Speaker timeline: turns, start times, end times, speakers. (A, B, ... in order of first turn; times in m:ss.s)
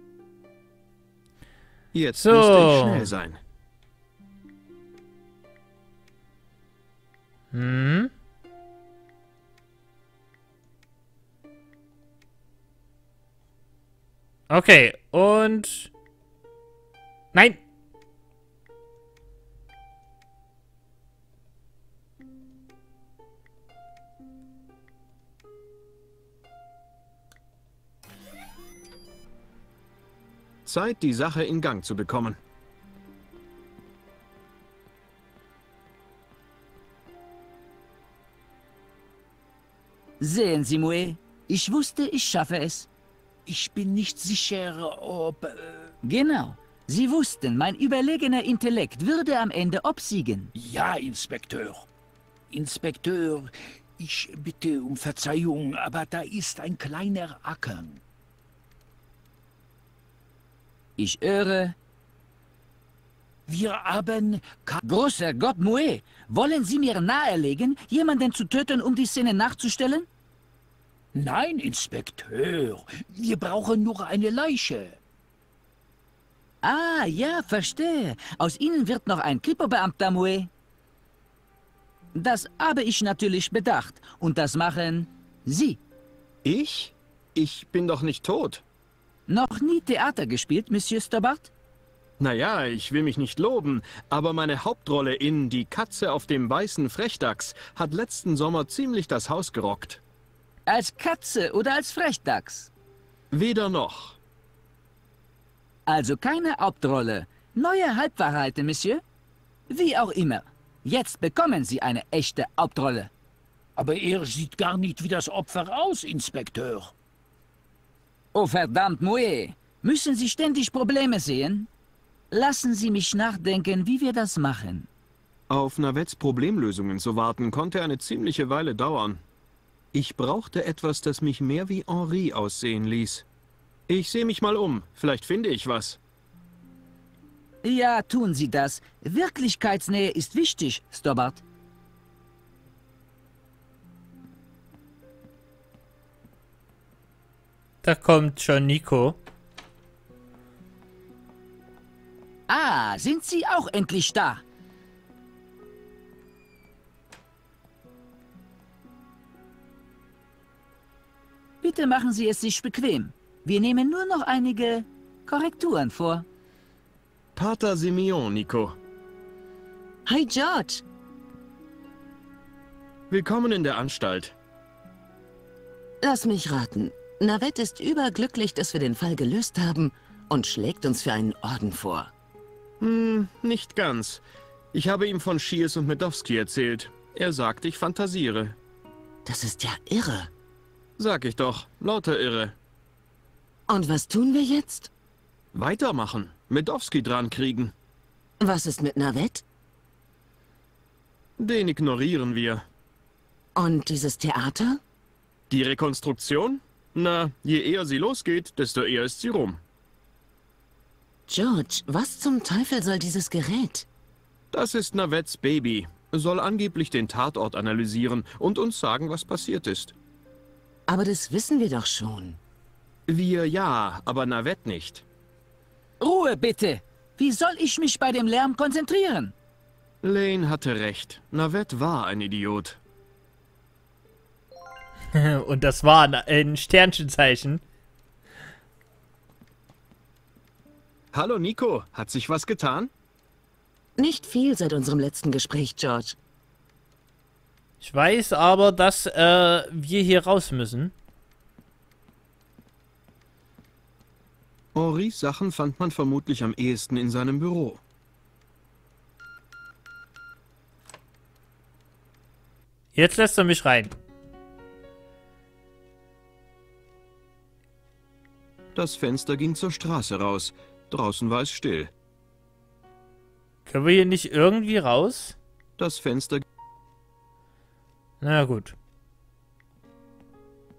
0:01.9-0:03.4 A
0:02.2-0:03.1 B
0:07.5-0:08.1 B
0:14.5-0:15.9 B
0:17.3-0:17.6 B
0:30.6-0:32.4 A
0:40.2-0:42.9 C
0:43.4-0:45.9 D
0:46.0-0:50.5 C
0:50.5-0:51.8 D
0:52.5-0:58.0 D
1:01.0-1:01.7 C
1:03.5-1:04.8 D
1:04.8-1:10.1 C
1:11.1-1:15.0 D
1:16.6-1:20.5 C
1:22.1-1:25.8 C
1:26.4-1:28.6 A
1:29.3-1:31.5 C
1:32.2-1:40.0 A
1:40.6-1:42.7 C
1:43.3-1:44.2 A
1:45.8-1:49.0 C
1:49.7-1:53.1 C
1:53.8-1:56.9 D
1:58.3-2:01.7 C
2:02.3-2:04.9 C
2:05.5-2:09.2 A
2:09.9-2:13.2 A
2:13.9-2:16.0 A
2:17.6-2:21.4 C
2:27.8-2:29.2 B
2:32.5-2:34.4 C
2:41.6-2:46.2 C
2:47.4-2:48.8 A
2:50.0-2:50.8 E
2:53.1-2:54.3 A
2:56.0-3:02.1 E
3:02.8-3:08.6 A
3:09.2-3:10.3 E
3:11.0-3:12.6 A
3:13.7-3:14.9 E
3:15.5-3:17.7 A
3:18.4-3:19.4 E
3:21.4-3:22.6 A
3:23.6-3:24.8 E
3:25.5-3:29.6 A
3:31.3-3:33.9 E
3:34.5-3:39.9 A
3:40.9-3:42.4 E
3:43.1-3:45.0 A
3:46.0-3:49.3 C
3:50.0-3:52.8 A
3:55.1-3:57.6 B
4:01.1-4:02.9 A
4:04.0-4:06.2 E
4:07.8-4:10.9 B
4:14.7-4:17.8 A
4:22.9-4:23.9 B
4:28.7-4:31.9 A
4:33.7-4:35.4 B
4:35.8-4:36.4 A
4:38.2-4:38.8 B